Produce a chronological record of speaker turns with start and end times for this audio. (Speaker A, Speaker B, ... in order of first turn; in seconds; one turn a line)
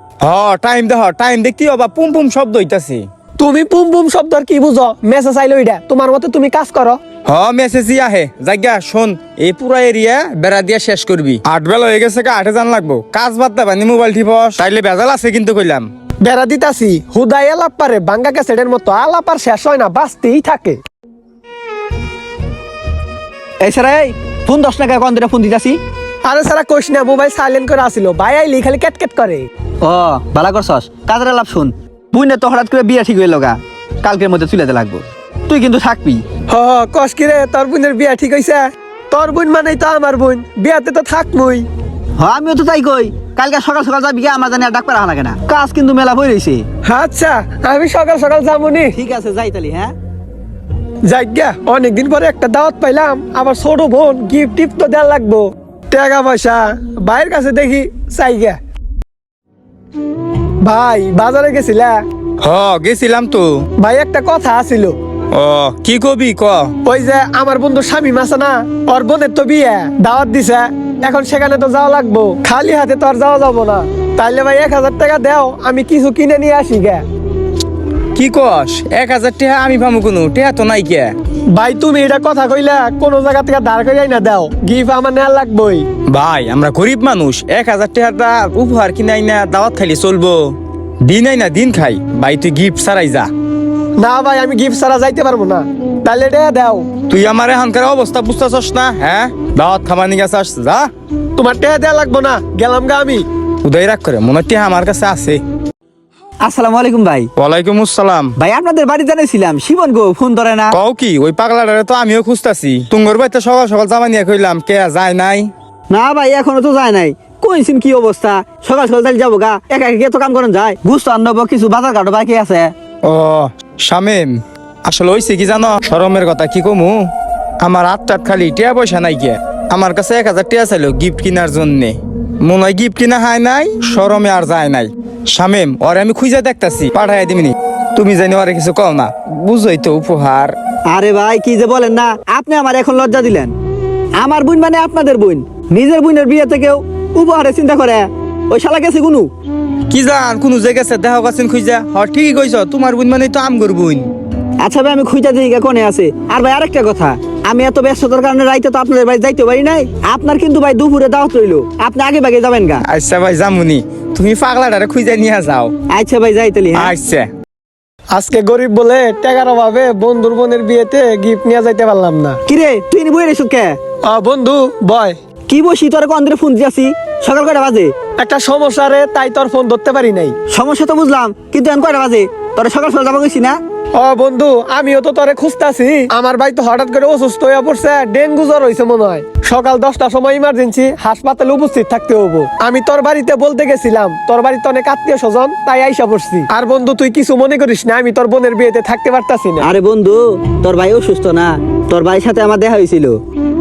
Speaker A: 0.2-3.0
Speaker B: 3.4-7.0
Speaker A: 7.3-15.9
Speaker B: 16.2-20.8
Speaker C: 23.6-25.8
Speaker B: 26.2-29.5
Speaker C: 29.8-36.2
Speaker B: 36.5-41.6
Speaker C: 42.2-46.6
Speaker B: 46.9-49.0
Speaker C: 49.0-49.9
Speaker B: 51.1-58.6
Speaker B: 60.6-62.0
Speaker A: 62.4-63.6
Speaker B: 63.8-65.0
Speaker A: 65.3-66.7
Speaker B: 66.8-77.0
Speaker A: 78.2-81.1
Speaker B: 81.5-85.9
Speaker A: 86.1-90.4
Speaker A: 91.0-93.3
Speaker B: 94.0-96.9
Speaker A: 97.1-100.9
Speaker B: 101.4-103.2
Speaker A: 103.6-105.4
Speaker C: 106.4-107.3
Speaker A: 107.4-108.3
Speaker C: 108.4-110.8
Speaker A: 110.7-115.5
Speaker C: 115.9-122.7
Speaker A: 123.0-124.3
Speaker A: 124.9-127.0
Speaker A: 127.6-140.6
Speaker C: 140.9-143.5
Speaker C: 144.2-149.3
Speaker A: 149.9-154.1
Speaker C: 154.6-162.8
Speaker A: 162.8-165.7
Speaker C: 165.9-166.9
Speaker A: 166.7-167.3
Speaker B: 168.1-172.4
Speaker C: 172.5-173.8
Speaker B: 174.1-175.2
Speaker C: 175.5-177.9
Speaker B: 178.2-180.4
Speaker C: 180.5-183.6
Speaker B: 184.0-199.7
Speaker C: 199.6-203.2